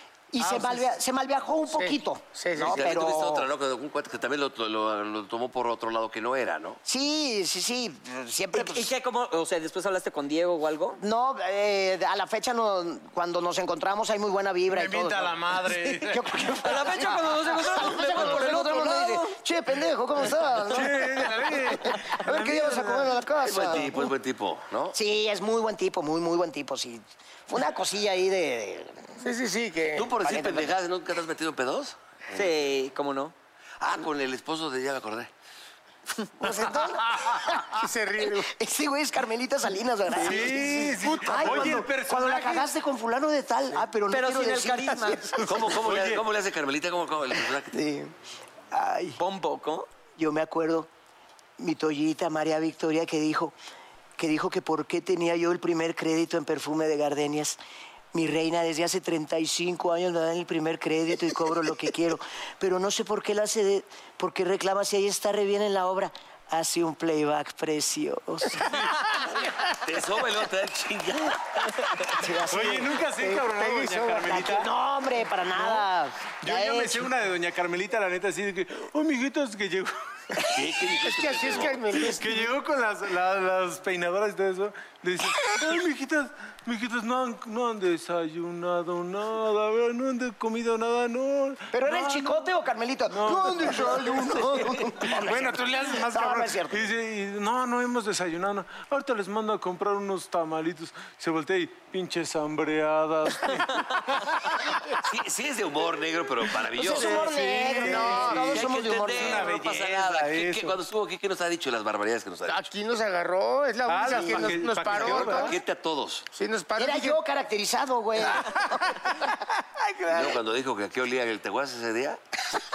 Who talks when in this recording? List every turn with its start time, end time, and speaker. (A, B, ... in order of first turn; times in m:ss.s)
0:00.3-0:03.5 A
0:01.7-0:02.9 B
0:02.6-0:06.8 C
0:06.8-0:08.9 A
0:08.5-0:11.0 D
0:11.0-0:24.1 A
0:14.7-0:16.5 E
0:16.6-0:19.4 D
0:20.7-0:23.2 E
0:23.4-0:24.9 C
0:24.9-0:29.1 A
0:29.2-0:30.1 B
0:30.0-0:32.5 C
0:30.2-0:30.7 A
0:32.3-0:33.3 D
0:33.8-0:35.3 C
0:36.4-0:45.7 A
0:37.2-0:37.4 E
0:37.7-0:38.5 B
0:40.1-0:42.7 E
0:41.0-0:41.8 B
0:44.1-0:45.3 D
0:45.4-0:47.7 C
0:45.7-0:46.2 E
0:47.7-0:48.1 A
0:48.7-0:49.2 A
0:49.2-0:49.9 D
0:50.2-0:50.9 A
0:51.6-0:53.6 A
0:54.2-0:57.6 A
0:58.1-1:08.8 A
1:09.8-1:11.7 C
1:12.1-1:13.0 A
1:12.5-1:14.7 E
1:13.2-1:14.3 B
1:14.2-1:17.1 A
1:16.4-1:19.9 E
1:20.4-1:21.8 C
1:20.9-1:22.5 B
1:22.0-1:32.5 E
1:31.7-1:36.9 A
1:33.1-1:44.4 E
1:44.9-1:47.2 C
1:46.7-1:49.5 A
1:46.8-1:50.8 E
1:47.8-1:48.5 B
1:48.5-1:52.6 C
1:52.5-1:55.6 B
1:53.9-1:55.6 E
1:54.3-1:56.3 C
1:56.3-1:57.2 B
1:56.8-1:59.2 A
2:00.1-2:02.2 C